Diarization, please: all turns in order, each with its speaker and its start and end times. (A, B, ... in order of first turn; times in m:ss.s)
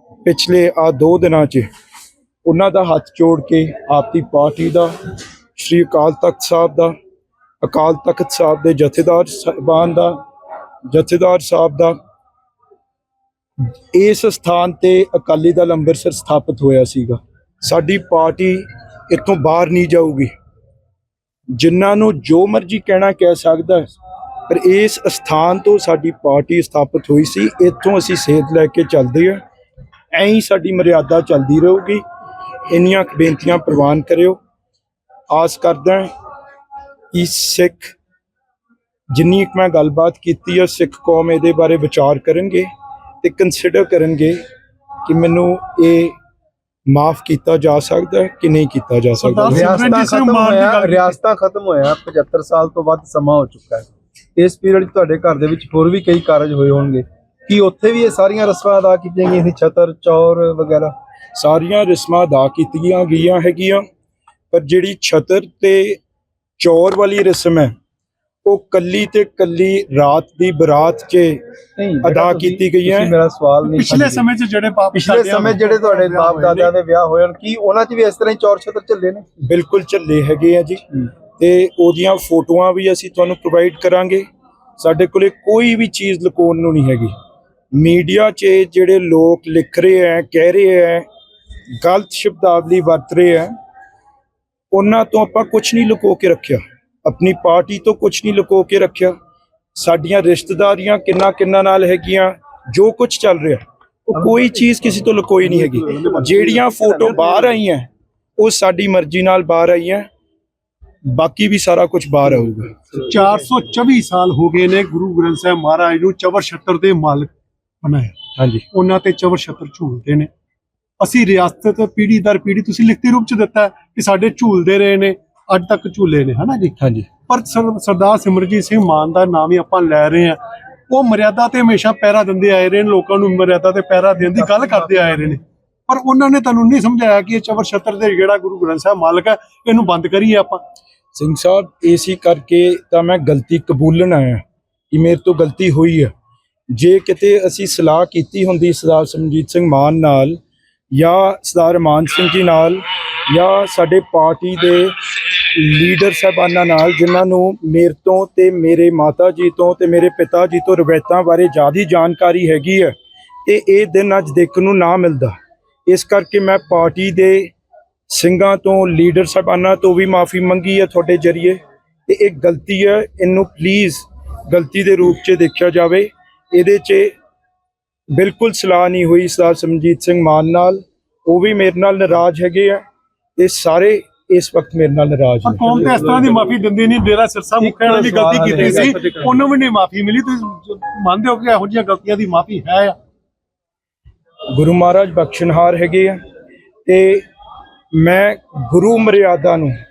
0:00.2-0:01.6 A
0:02.4-0:04.9 A
0:05.6-0:06.9 A
0:07.6-0:10.1 A
0:10.9-0:11.9 A
0:13.9-0:20.3 A
0:21.6-0:23.9 A
0:24.5-0:29.4 A
0:30.1-0:32.0 A
0:32.7-0:34.4 A
0:35.3-0:36.1 A
0:37.1-0:37.9 A
0:39.1-0:42.7 A
0:43.2-0:44.4 A
0:45.0-0:46.1 A
0:46.9-0:49.7 A
0:49.1-0:51.2 B
0:49.5-1:00.9 C
1:01.4-1:03.8 A
1:04.5-1:06.0 A
1:06.6-1:07.7 A
1:08.4-1:11.4 A
1:11.8-1:14.2 C
1:12.0-1:13.2 A
1:13.6-1:16.7 B
1:14.9-1:19.2 C
1:19.4-1:20.8 A
1:21.4-1:24.2 A
1:24.8-1:27.1 A
1:27.7-1:31.0 A
1:31.8-1:33.5 A
1:34.7-1:39.1 A
1:39.8-1:50.0 A
1:45.6-1:46.2 C
1:46.1-1:46.7 B
1:46.8-1:47.4 C
1:51.1-1:52.9 A
1:53.0-1:57.3 B
1:57.8-1:58.2 B
1:58.4-1:58.6 A
1:58.7-2:00.3 B
2:01.0-2:20.6 B
2:06.8-2:07.1 A
2:14.2-2:15.4 C
2:21.1-2:26.1 A
2:26.7-2:30.4 A
2:30.9-2:34.9 A
2:35.5-2:42.9 A
2:43.4-2:45.3 A
2:45.9-2:47.5 A
2:48.1-2:57.1 A
2:58.2-3:02.8 A
3:03.4-3:05.9 A
3:05.4-3:12.9 B
3:05.9-3:06.2 C
3:07.6-3:09.3 C
3:14.6-3:16.2 A
3:16.9-3:17.2 A
3:18.0-3:19.7 A